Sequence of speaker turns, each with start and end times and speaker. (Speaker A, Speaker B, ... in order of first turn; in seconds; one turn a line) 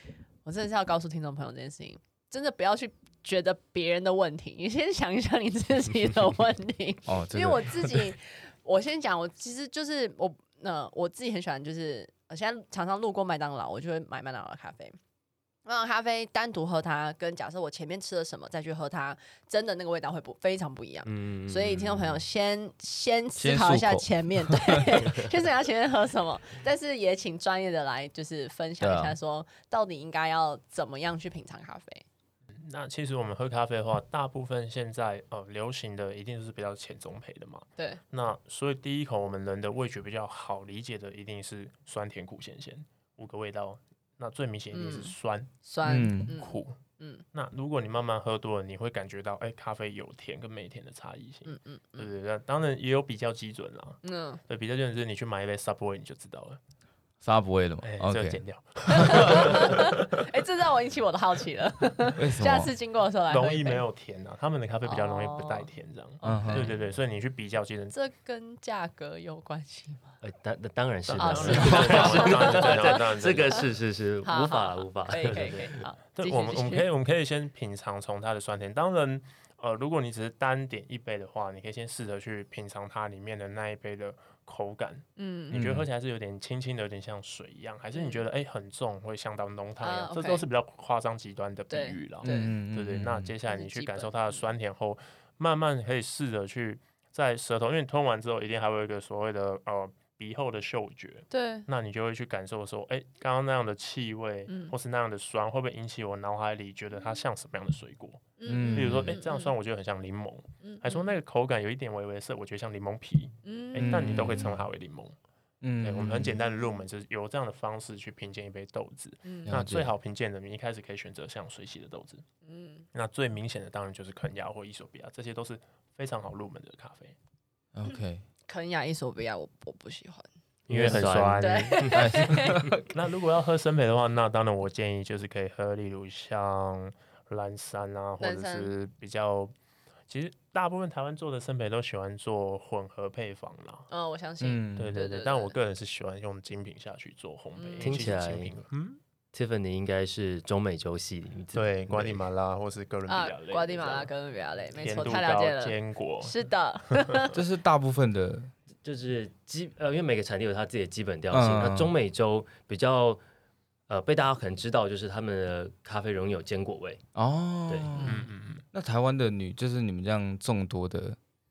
Speaker A: 0.5-15.0
Speaker B: 7.1-8.1
Speaker A: 15.7-32.0
Speaker C: 21.1-22.2
Speaker B: 23.4-25.0
Speaker B: 28.8-29.2
Speaker D: 32.6-45.5
Speaker A: 44.7-47.2
Speaker B: 45.9-46.4
Speaker D: 46.3-46.8
Speaker D: 47.3-56.6
Speaker A: 51.5-52.1
Speaker A: 54.0-54.4
Speaker B: 57.2-59.6
Speaker D: 57.8-60.2
Speaker A: 58.9-63.8
Speaker B: 62.2-62.7
Speaker D: 63.3-68.0
Speaker A: 64.8-66.8
Speaker B: 66.2-66.7
Speaker A: 67.9-70.1
Speaker C: 70.2-75.8
Speaker D: 71.1-73.6
Speaker A: 71.2-73.6
Speaker A: 74.2-76.9
Speaker D: 76.2-115.2
Speaker A: 85.2-85.6
Speaker B: 85.5-85.9
Speaker A: 87.9-88.2
Speaker A: 89.8-90.5
Speaker A: 91.7-92.5
Speaker B: 92.2-93.3
Speaker A: 93.5-94.5
Speaker A: 101.3-101.7
Speaker A: 104.5-104.8
Speaker A: 108.4-109.5
Speaker B: 108.5-109.2
Speaker A: 110.6-111.1
Speaker A: 113.4-114.2
Speaker B: 113.8-114.6
Speaker B: 115.6-116.4
Speaker D: 115.8-122.2
Speaker A: 116.5-116.8
Speaker A: 119.2-119.5
Speaker B: 119.5-120.0
Speaker A: 122.5-122.8
Speaker D: 122.9-127.2
Speaker B: 127.8-128.2
Speaker A: 128.5-130.3
Speaker C: 130.7-132.1
Speaker D: 130.7-132.0
Speaker A: 131.4-132.6
Speaker B: 131.9-132.8
Speaker D: 132.9-139.6
Speaker A: 138.2-138.7
Speaker D: 140.1-143.9
Speaker A: 143.9-145.6
Speaker B: 144.4-144.9
Speaker D: 144.8-149.0
Speaker A: 147.6-148.1
Speaker C: 147.8-148.5
Speaker C: 149.3-152.2
Speaker D: 151.6-154.1
Speaker A: 153.1-157.3
Speaker D: 154.8-156.4
Speaker D: 156.9-157.3
Speaker B: 157.3-158.5
Speaker C: 158.8-163.2
Speaker B: 161.3-161.9
Speaker C: 163.9-167.0
Speaker B: 167.2-171.2
Speaker D: 168.0-168.6